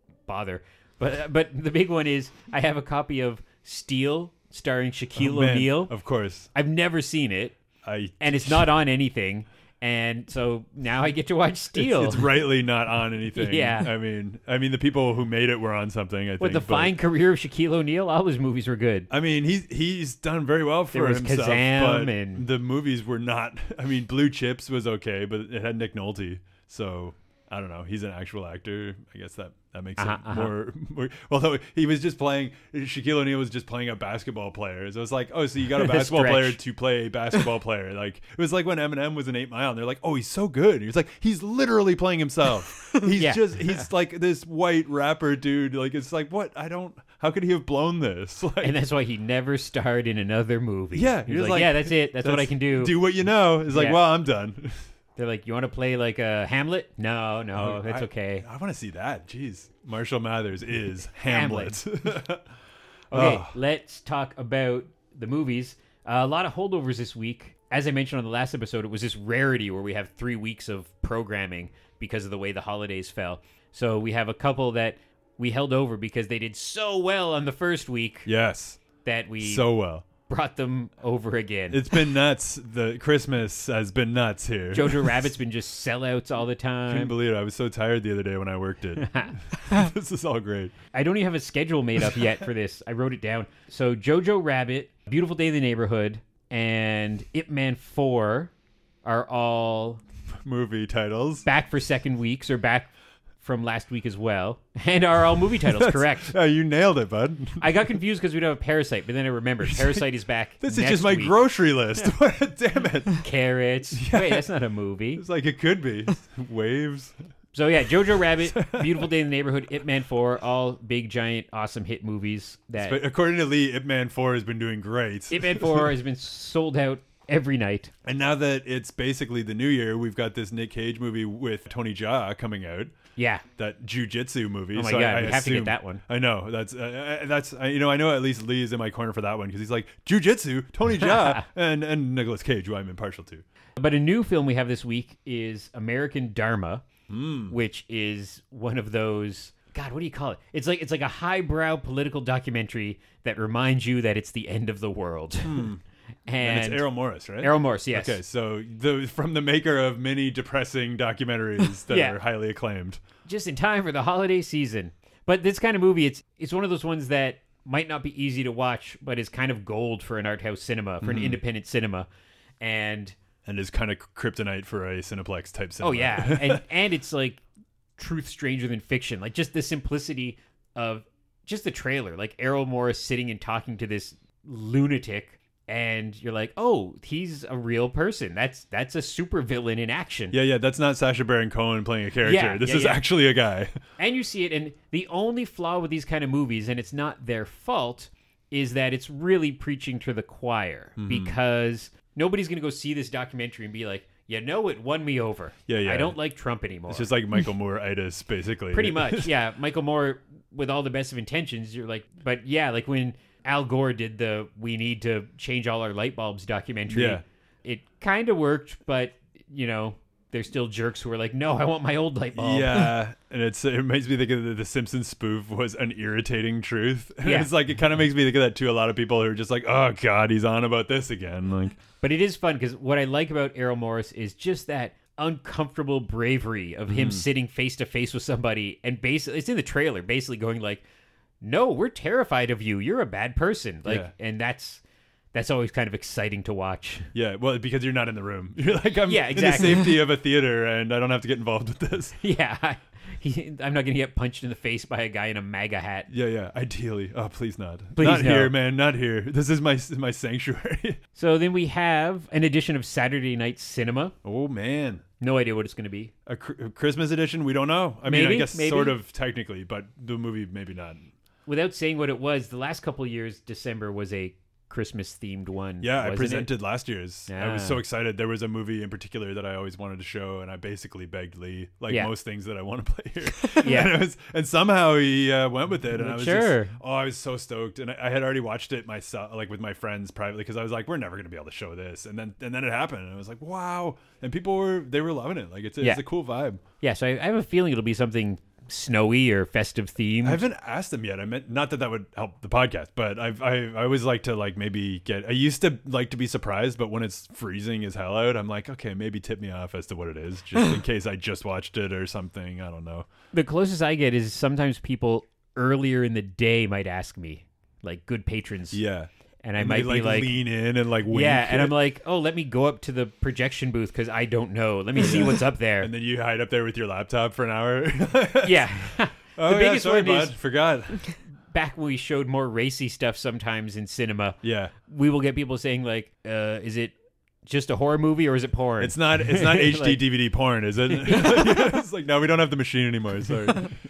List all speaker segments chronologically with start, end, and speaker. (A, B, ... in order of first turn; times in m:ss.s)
0:00.3-0:05.9 A
0:05.1-0:06.5 B
0:06.5-0:07.6 A
0:07.8-0:08.7 B
0:08.2-0:12.4 A
0:11.7-0:16.9 B
0:13.3-0:13.9 A
0:16.4-0:19.1 A
0:19.1-0:48.8 B
0:20.9-0:22.4 A
0:30.0-0:30.5 A
0:35.8-0:36.6 A
0:43.2-0:43.8 A
0:48.6-0:52.9 A
0:50.9-0:54.8 B
0:53.7-0:54.0 A
0:55.2-0:58.4 A
0:57.5-1:02.5 B
1:01.2-1:01.8 A
1:03.1-1:03.6 B
1:03.1-1:18.3 A
1:18.2-1:18.8 B
1:19.0-1:21.9 A
1:19.4-1:20.1 B
1:21.7-1:25.2 B
1:24.7-1:27.1 A
1:26.9-1:30.7 B
1:29.0-1:29.3 A
1:30.9-1:38.5 A
1:39.0-1:40.0 A
1:40.4-1:41.4 B
1:41.4-1:46.3 A
1:45.6-1:47.8 B
1:47.6-1:51.4 A
1:49.6-1:50.1 B
1:50.6-1:53.2 B
1:53.2-1:55.2 A
1:53.9-1:54.5 B
1:55.2-1:57.2 B
1:57.5-2:03.0 A
1:58.4-1:59.1 B
2:02.8-2:05.9 B
2:05.3-2:07.9 A
2:08.0-2:12.9 B
2:13.2-2:13.4 A
2:13.6-2:23.4 B
2:14.7-2:16.0 A
2:21.0-2:21.4 A
2:23.8-2:26.8 A
2:27.1-2:27.6 B
2:27.5-2:35.7 A
2:35.4-2:35.8 B
2:36.3-2:38.2 A
2:36.4-2:43.0 B
2:41.9-2:42.2 A
2:43.2-2:52.1 A
2:51.0-2:51.4 B
2:52.6-2:53.2 A
2:53.4-2:56.6 B
2:55.8-2:57.4 A
2:58.0-3:10.4 A
3:10.3-3:13.8 B
3:12.2-3:13.0 A
3:14.0-3:27.1 A
3:21.0-3:21.3 B
3:25.7-3:26.2 B
3:26.9-3:29.3 B
3:28.7-3:42.9 A
3:36.9-3:37.2 B
3:42.3-3:51.8 B
3:47.2-3:47.5 A
3:52.0-4:00.8 A
3:56.9-3:57.2 B
4:01.4-4:04.8 A
4:03.8-4:04.1 B
4:05.3-4:07.1 A
4:07.1-4:12.2 B
4:09.0-4:09.9 A
4:12.2-4:16.1 A
4:16.1-4:21.0 B
4:18.0-4:18.5 A
4:21.2-4:24.1 A
4:24.2-4:25.0 B
4:25.2-4:26.1 A
4:26.2-4:31.1 B
4:28.0-4:29.0 A
4:31.4-4:36.5 A
4:35.8-4:56.6 B
4:37.3-4:37.8 A
4:43.6-4:43.9 A
4:45.9-4:46.8 A
4:56.8-5:00.4 A
5:00.2-5:13.1 B
5:13.3-5:18.8 A
5:18.7-5:21.8 B
5:19.4-5:20.4 A
5:21.1-5:25.9 A
5:25.0-5:28.7 B
5:28.4-5:30.4 A
5:29.3-5:31.1 B
5:31.5-5:36.9 A
5:34.4-5:34.7 B
5:37.4-5:40.0 A
5:38.8-5:43.7 B
5:40.9-5:41.6 A